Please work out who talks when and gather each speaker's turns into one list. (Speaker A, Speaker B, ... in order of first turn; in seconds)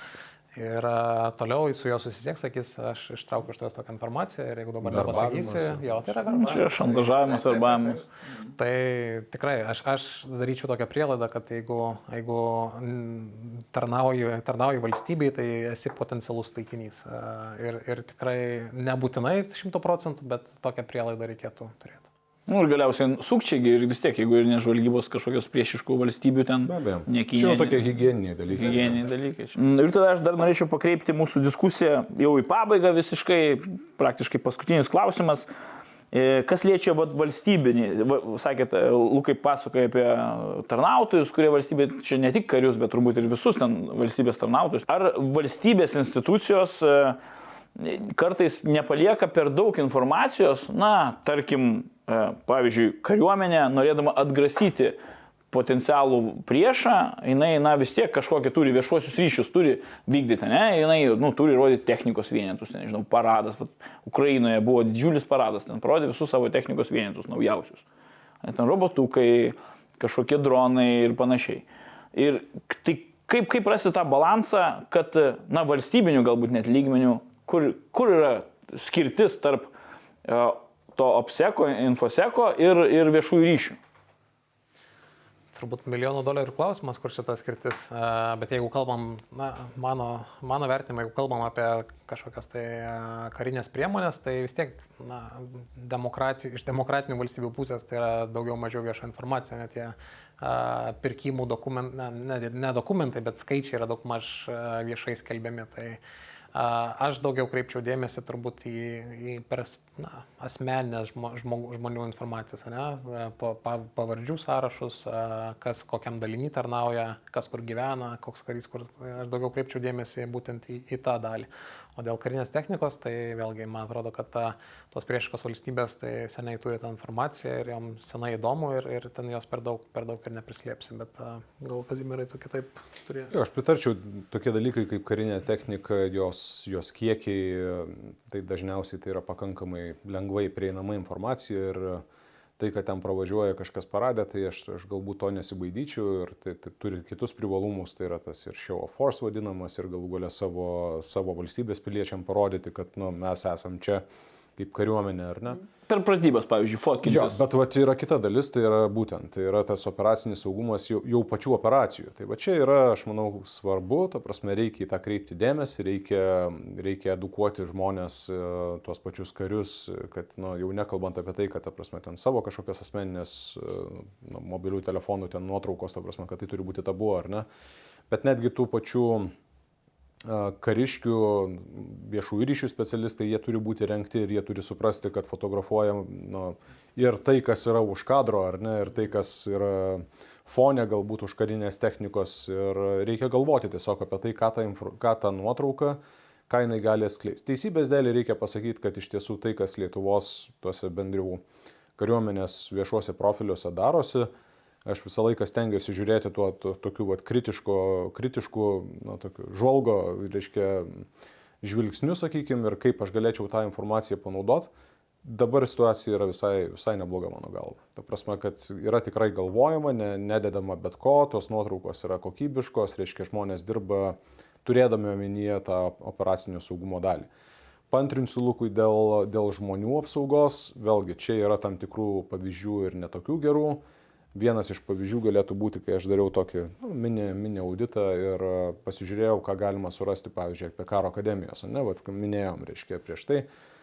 Speaker A: 0.6-7.9, 8.5-22.1, 85.5-106.0, 106.5-133.3
Speaker B: 4.8-5.9, 26.6-29.0, 133.3-142.0, 142.6-154.0, 154.6-155.6, 157.0-177.4, 178.1-179.3, 180.2-201.4, 202.0-204.3, 204.8-211.1, 211.6-214.7, 215.2-227.3, 227.9-233.8, 234.3-243.5
Speaker C: 6.3-8.0, 22.5-27.8, 28.5-35.5, 36.1-47.2, 47.8-55.0, 55.5-67.8, 68.4-79.7, 80.2-83.8, 155.9-157.4